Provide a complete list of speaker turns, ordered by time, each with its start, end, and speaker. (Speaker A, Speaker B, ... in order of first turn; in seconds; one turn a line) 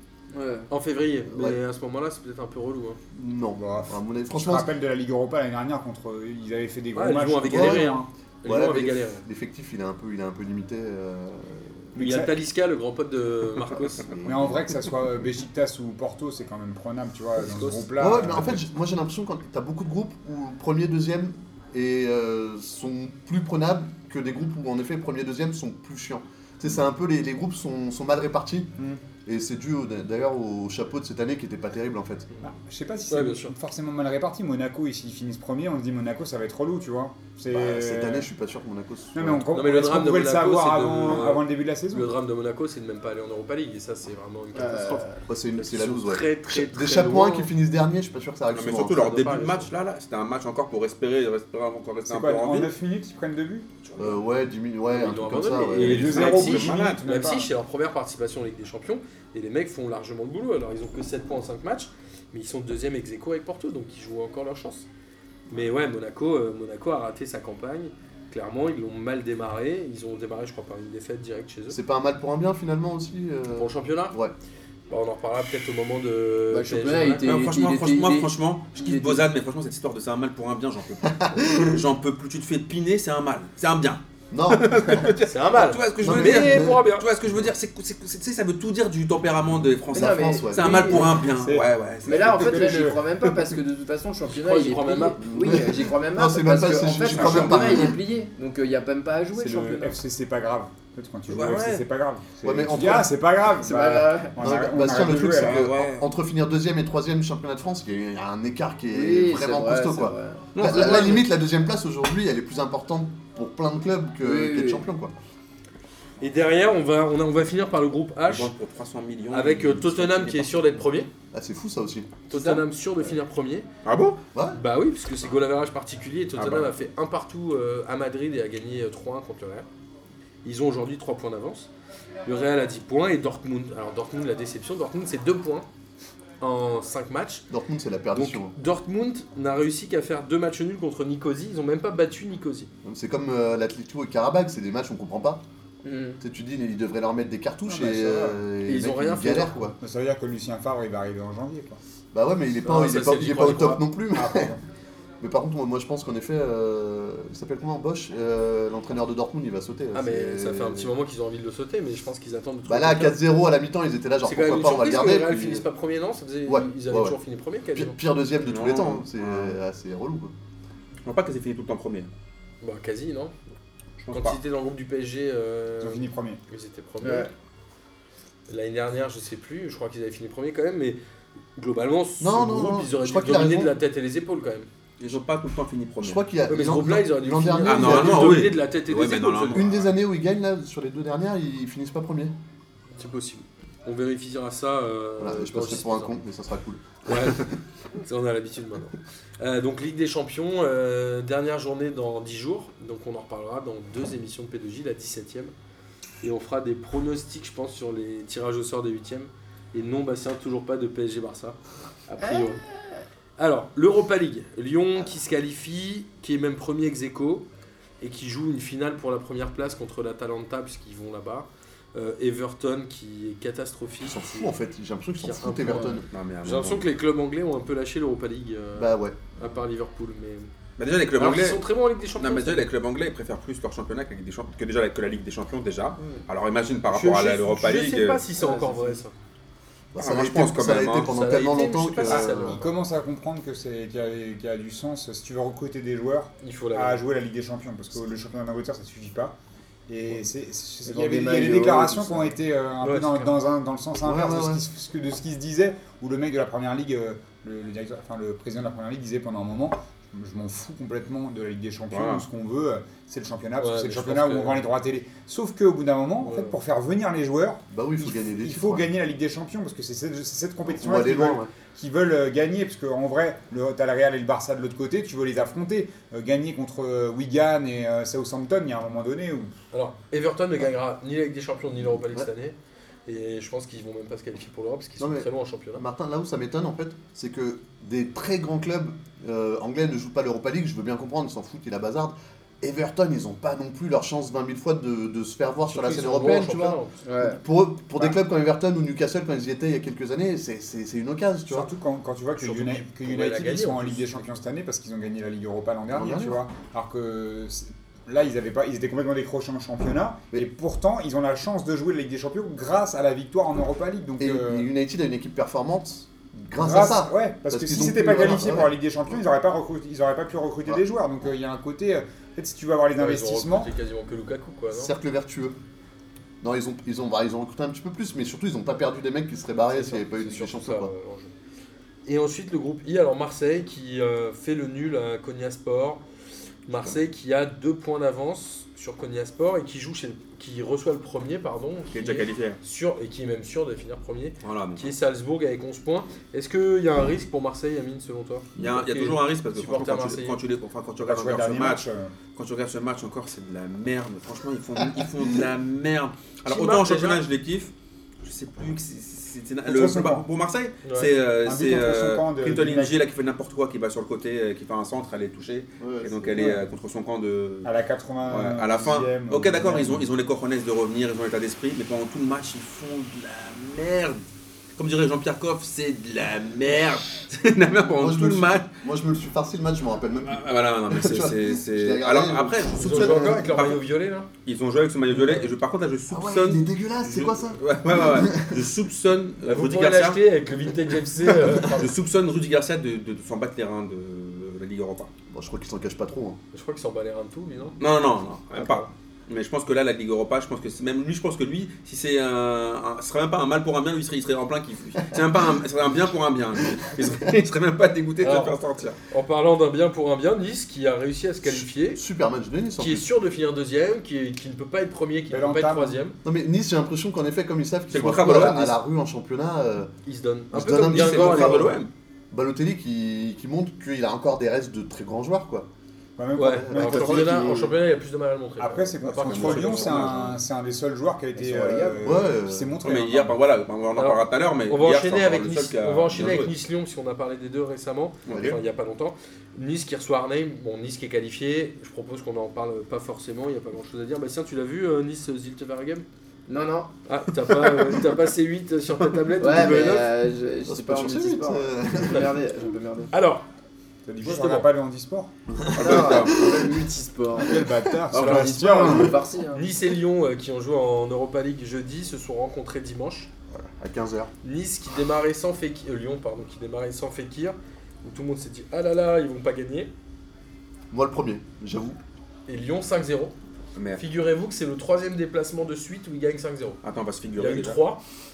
Speaker A: 0.3-0.7
Speaker B: 0.7-3.0
Speaker C: 1.3-1.6
Speaker C: 3.1-4.7
Speaker D: 3.5-8.1
Speaker B: 6.9-9.2
Speaker C: 7.5-7.9
Speaker C: 8.4-11.9
Speaker D: 11.9-12.3
Speaker B: 11.9-14.1
Speaker C: 14.1-14.6
Speaker D: 14.2-18.7
Speaker B: 17.4-17.9
Speaker C: 18.0-28.7
Speaker D: 28.8-29.0
Speaker C: 29.2-32.3
Speaker D: 32.4-38.3
Speaker B: 33.1-33.5
Speaker C: 37.5-39.4
Speaker D: 39.1-42.1
Speaker B: 39.5-47.5
Speaker A: 44.5-45.2
Speaker C: 45.3-49.7
Speaker E: 48.5-52.7
Speaker D: 52.1-53.7
Speaker E: 53.8-54.2
Speaker C: 54.0-56.2
Speaker B: 54.9-64.8
Speaker D: 55.8-57.5
Speaker E: 55.8-57.0
Speaker B: 65.5-71.8
Speaker C: 71.7-74.3
Speaker B: 73.5-74.2
Speaker B: 74.9-77.3
Speaker A: 76.5-79.2
Speaker E: 77.2-93.4
Speaker C: 81.2-81.8
Speaker C: 84.3-85.1
Speaker B: 85.2-87.1
Speaker C: 86.0-86.8
Speaker A: 89.9-91.2
Speaker C: 89.9-91.1
Speaker D: 91.4-93.1
Speaker A: 92.0-100.0
Speaker B: 94.2-95.2
Speaker C: 95.2-98.0
Speaker E: 97.0-97.9
Speaker D: 99.3-105.7
Speaker E: 101.3-101.8
Speaker C: 102.4-103.1
Speaker A: 103.6-104.4
Speaker C: 104.4-115.1
Speaker E: 105.3-106.1
Speaker A: 108.9-111.1
Speaker E: 110.5-111.2
Speaker A: 114.2-114.8
Speaker B: 116.2-118.5
Speaker E: 118.2-120.7
Speaker B: 119.3-121.1
Speaker C: 121.3-122.2
Speaker B: 122.3-123.7
Speaker A: 122.3-122.7
Speaker E: 123.8-124.2
Speaker C: 124.3-124.6
Speaker B: 124.5-129.7
Speaker E: 126.4-126.7
Speaker B: 130.4-131.7
Speaker B: 132.2-135.7
Speaker B: 136.4-137.4
Speaker C: 137.5-138.5
Speaker B: 138.1-142.7
Speaker C: 142.8-145.4
Speaker A: 145.8-146.2
Speaker C: 146.2-149.8
Speaker B: 147.8-149.7
Speaker D: 149.8-151.8
Speaker C: 152.1-154.5
Speaker B: 152.6-153.8
Speaker D: 154.1-154.6
Speaker C: 155.2-160.9
Speaker B: 159.9-163.2
Speaker C: 162.7-165.6
Speaker B: 164.2-167.9
Speaker C: 166.4-167.2
Speaker C: 167.7-170.3
Speaker E: 168.4-169.6
Speaker E: 171.0-172.1
Speaker B: 172.6-173.3
Speaker E: 174.0-174.4
Speaker B: 174.1-177.3
Speaker D: 175.8-176.4
Speaker A: 177.0-177.3
Speaker B: 178.5-181.0
Speaker B: 181.6-184.7
Speaker C: 182.2-183.7
Speaker E: 185.0-186.2
Speaker C: 186.0-188.6
Speaker B: 186.5-189.7
Speaker E: 187.6-189.9
Speaker C: 189.5-192.3
Speaker B: 192.9-196.2
Speaker C: 195.2-197.5
Speaker B: 197.1-205.5
Speaker B: 206.2-212.6
Speaker A: 212.2-212.5
Speaker B: 213.4-217.4
Speaker B: 218.0-224.6
Speaker C: 224.0-226.1
Speaker B: 225.2-230.5
Speaker E: 226.1-226.9
Speaker C: 228.8-229.2
Speaker E: 230.8-231.6
Speaker B: 231.1-232.7
Speaker E: 232.2-238.2
Speaker B: 236.9-239.1
Speaker A: 238.4-239.0
Speaker C: 239.9-242.6
Speaker E: 240.0-241.2
Speaker B: 241.0-242.7
Speaker D: 242.0-249.4
Speaker B: 246.4-247.0
Speaker D: 249.9-279.5
Speaker A: 250.8-252.3
Speaker B: 252.8-253.3
Speaker C: 254.0-254.6
Speaker E: 261.9-262.2
Speaker B: 263.6-264.6
Speaker B: 266.2-266.6
Speaker C: 267.7-268.9
Speaker C: 270.7-271.5
Speaker B: 279.7-285.8
Speaker C: 285.0-296.8
Speaker B: 295.7-297.0
Speaker A: 297.0-297.4
Speaker C: 297.4-301.7
Speaker D: 301.5-314.7
Speaker B: 302.4-304.1
Speaker C: 305.9-306.4
Speaker C: 314.2-318.7
Speaker D: 316.5-323.7
Speaker B: 323.0-324.9
Speaker C: 324.7-325.6
Speaker C: 326.4-330.9
Speaker B: 329.7-331.3
Speaker B: 332.1-336.0
Speaker B: 336.7-350.4
Speaker E: 341.9-342.6
Speaker E: 344.4-344.9
Speaker E: 348.6-351.8
Speaker D: 351.0-352.1
Speaker E: 352.3-357.7
Speaker B: 356.4-357.2
Speaker E: 358.2-367.7
Speaker D: 359.6-360.2
Speaker B: 360.8-361.1
Speaker D: 361.4-363.0
Speaker C: 365.8-366.6
Speaker D: 367.6-370.1
Speaker E: 368.3-374.2
Speaker E: 374.8-378.7
Speaker C: 377.9-383.6
Speaker E: 380.2-383.8
Speaker B: 382.7-384.3
Speaker E: 384.4-390.2
Speaker C: 386.1-388.6
Speaker B: 389.4-391.9
Speaker E: 391.4-395.1
Speaker C: 395.3-396.4
Speaker B: 396.5-397.8
Speaker E: 397.8-409.0
Speaker B: 398.5-398.9
Speaker B: 408.2-408.6
Speaker B: 409.1-412.0
Speaker C: 411.4-413.1
Speaker B: 412.8-416.1
Speaker D: 415.3-416.0
Speaker C: 416.2-419.9
Speaker E: 417.9-418.8
Speaker B: 420.1-421.8
Speaker C: 420.5-425.7
Speaker E: 420.8-421.9
Speaker D: 426.2-427.6
Speaker B: 426.3-430.1
Speaker C: 426.4-427.5
Speaker A: 427.2-427.6
Speaker D: 428.6-433.4
Speaker E: 429.1-430.4
Speaker A: 431.4-432.2
Speaker C: 432.0-432.8
Speaker E: 432.8-436.5
Speaker B: 433.9-446.1
Speaker E: 438.2-438.6
Speaker C: 438.3-438.6
Speaker A: 446.5-446.9
Speaker B: 447.1-450.1
Speaker A: 449.4-453.1
Speaker C: 450.6-452.4
Speaker B: 453.1-453.4
Speaker D: 454.1-455.3
Speaker B: 454.2-454.7
Speaker C: 455.5-456.8
Speaker E: 455.8-456.6
Speaker A: 455.8-459.7
Speaker D: 457.4-459.1
Speaker B: 458.1-458.5
Speaker C: 458.2-459.1
Speaker B: 459.5-463.3
Speaker C: 463.8-464.3
Speaker B: 464.4-469.9
Speaker C: 470.9-472.0
Speaker B: 472.5-473.3
Speaker E: 473.8-474.0
Speaker B: 473.9-476.8
Speaker E: 476.8-477.8
Speaker B: 477.4-478.0